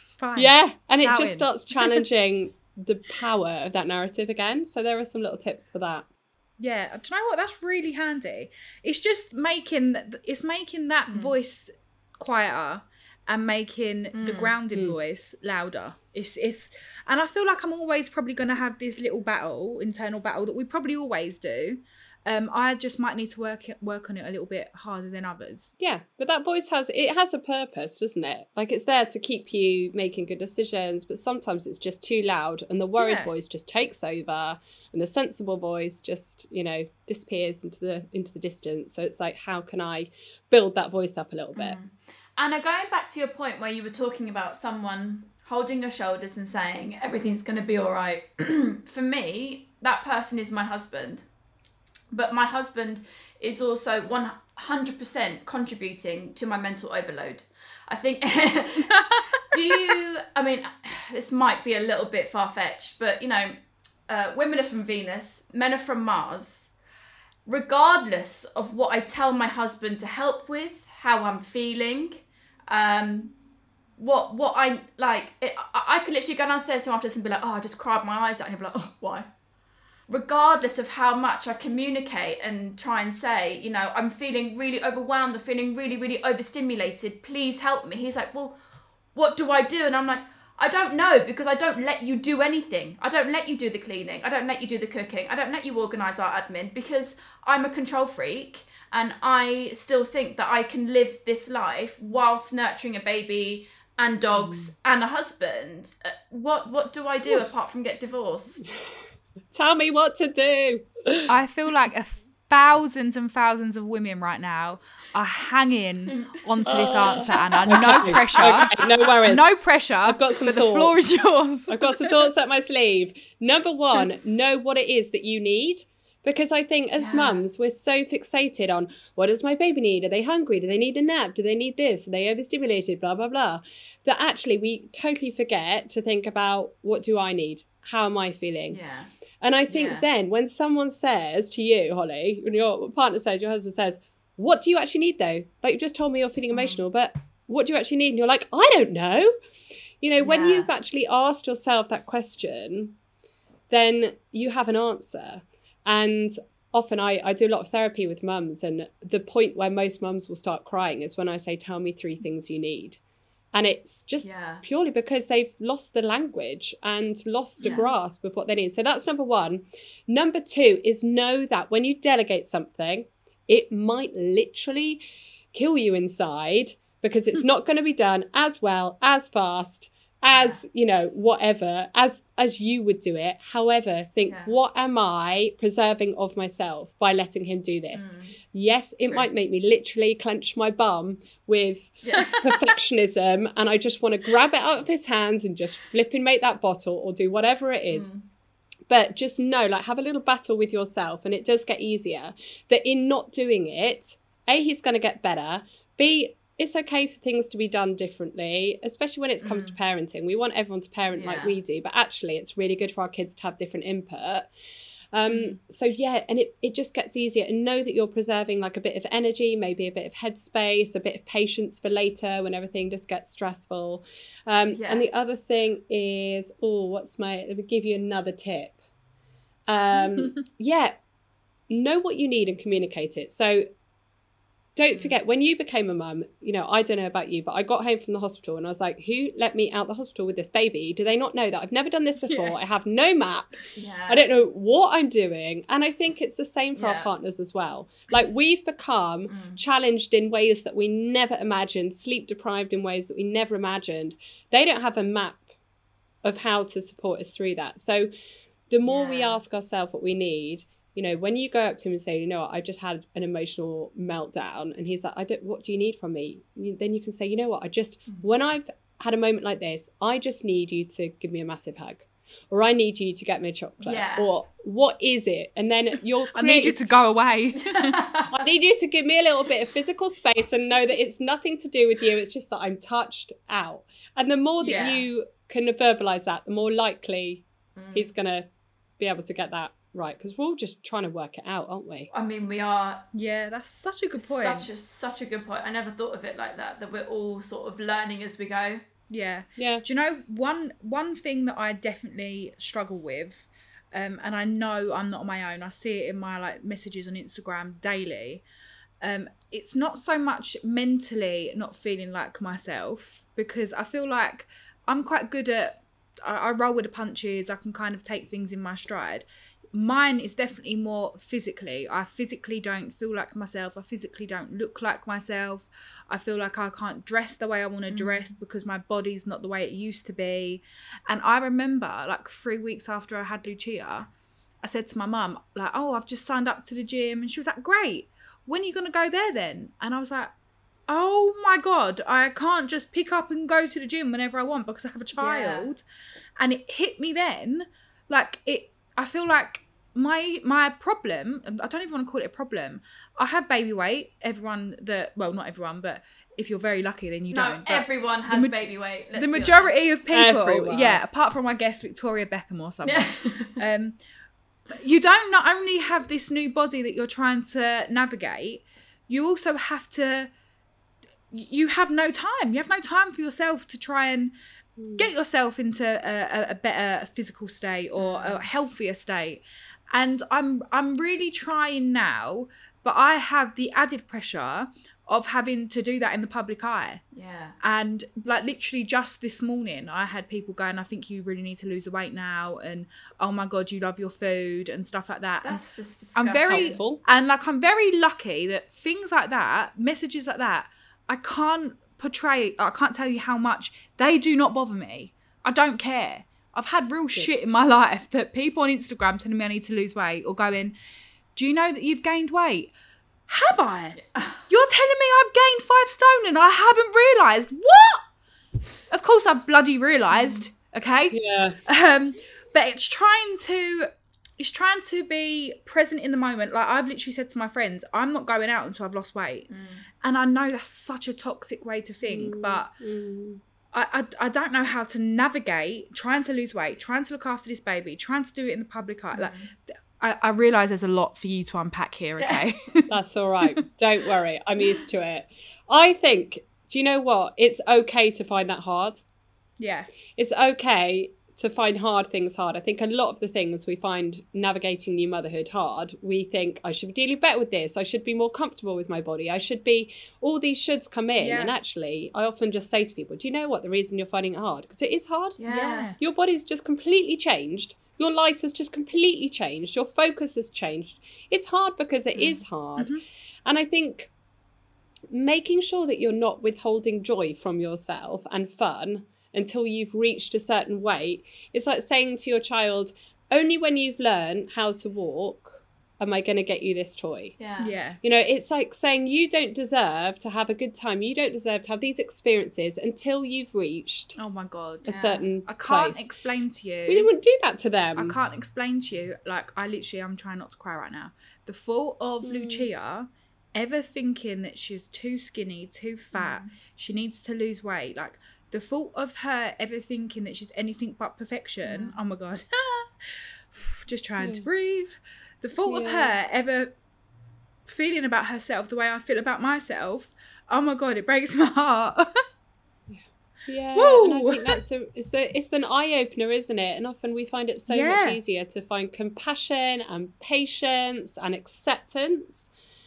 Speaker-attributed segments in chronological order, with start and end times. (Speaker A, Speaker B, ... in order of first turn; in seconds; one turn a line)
Speaker A: 0.2-1.5
Speaker B: 0.3-6.0
Speaker A: 6.6-25.7
Speaker C: 14.1-14.6
Speaker B: 25.8-41.8
Speaker A: 33.0-33.3
Speaker C: 41.5-51.2
Speaker C: 52.1-63.6
Speaker A: 58.9-59.5
Speaker C: 64.1-66.7
Speaker C: 67.5-73.3
Speaker C: 74.0-79.3
Speaker C: 80.1-88.6
Speaker C: 89.1-108.7
Speaker B: 104.4-104.7
Speaker B: 109.5-111.3
Speaker A: 111.3-118.7
Speaker C: 116.1-118.9
Speaker B: 116.7-119.5
Speaker A: 119.2-122.1
Speaker B: 120.0-121.0
Speaker B: 121.7-138.8
Speaker C: 127.0-127.4
Speaker C: 138.7-139.1
Speaker B: 139.4-149.3
Speaker C: 139.7-140.1
Speaker C: 146.5-146.8
Speaker B: 150.0-152.9
Speaker C: 150.2-150.7
Speaker B: 153.7-163.0
Speaker B: 163.5-198.1
Speaker C: 164.2-164.6
Speaker C: 167.6-167.9
Speaker C: 180.3-180.6
Speaker C: 184.3-184.5
Speaker C: 187.9-188.3
Speaker C: 192.0-192.7
Speaker C: 197.9-198.2
Speaker B: 198.9-214.5
Speaker C: 209.4-209.8
Speaker C: 211.1-211.5
Speaker B: 215.1-228.8
Speaker C: 215.3-215.6
Speaker C: 224.7-225.0
Speaker B: 229.7-231.0
Speaker B: 231.7-233.7
Speaker B: 234.8-255.4
Speaker A: 242.2-242.5
Speaker C: 243.8-244.2
Speaker C: 246.7-247.1
Speaker C: 249.3-249.6
Speaker B: 256.2-258.1
Speaker B: 258.7-276.8
Speaker C: 258.8-259.4
Speaker C: 273.8-274.3
Speaker A: 276.3-278.0
Speaker C: 277.6-278.5
Speaker B: 278.3-288.5
Speaker C: 284.6-285.0
Speaker C: 287.8-288.1
Speaker B: 289.0-292.1
Speaker C: 292.1-293.1
Speaker A: 293.1-294.7
Speaker C: 294.2-298.8
Speaker A: 299.1-308.4
Speaker B: 299.6-299.8
Speaker A: 309.0-334.1
Speaker C: 327.9-328.3
Speaker A: 334.6-340.3
Speaker A: 340.9-345.8
Speaker C: 345.1-345.7
Speaker A: 346.4-364.0
Speaker C: 357.3-360.0
Speaker B: 360.1-361.0
Speaker C: 362.8-363.6
Speaker A: 364.7-370.3
Speaker A: 371.3-374.3
Speaker A: 374.9-387.0
Speaker C: 378.0-378.5
Speaker C: 387.1-387.6
Speaker A: 387.6-395.6
Speaker C: 395.4-396.7
Speaker A: 396.1-410.8
Speaker B: 396.5-397.0
Speaker A: 411.4-412.7
Speaker A: 413.3-418.0
Speaker C: 414.1-414.4
Speaker A: 418.9-429.5
Speaker C: 420.1-420.5
Speaker B: 421.1-421.6
Speaker C: 429.5-429.8
Speaker A: 430.0-432.7
Speaker B: 432.0-433.4
Speaker A: 433.7-442.9
Speaker C: 439.1-439.5
Speaker C: 442.2-442.4
Speaker B: 442.9-449.0
Speaker A: 449.6-449.9
Speaker B: 450.2-465.4
Speaker A: 461.2-461.5
Speaker C: 465.4-465.9
Speaker A: 465.5-465.9
Speaker B: 466.0-472.9
Speaker B: 473.4-474.1
Speaker B: 475.1-487.4
Speaker C: 487.4-487.7
Speaker A: 487.6-488.0
Speaker B: 488.0-494.1
Speaker A: 494.1-494.9
Speaker C: 494.8-495.3
Speaker B: 494.9-496.1
Speaker A: 495.4-497.1
Speaker B: 496.9-498.1
Speaker A: 497.9-516.7
Speaker B: 502.2-502.7
Speaker C: 506.1-506.5
Speaker C: 511.6-511.9
Speaker B: 514.2-514.5
Speaker B: 515.7-516.1
Speaker A: 517.6-522.1
Speaker B: 522.9-532.5
Speaker A: 523.7-524.6
Speaker A: 527.7-528.2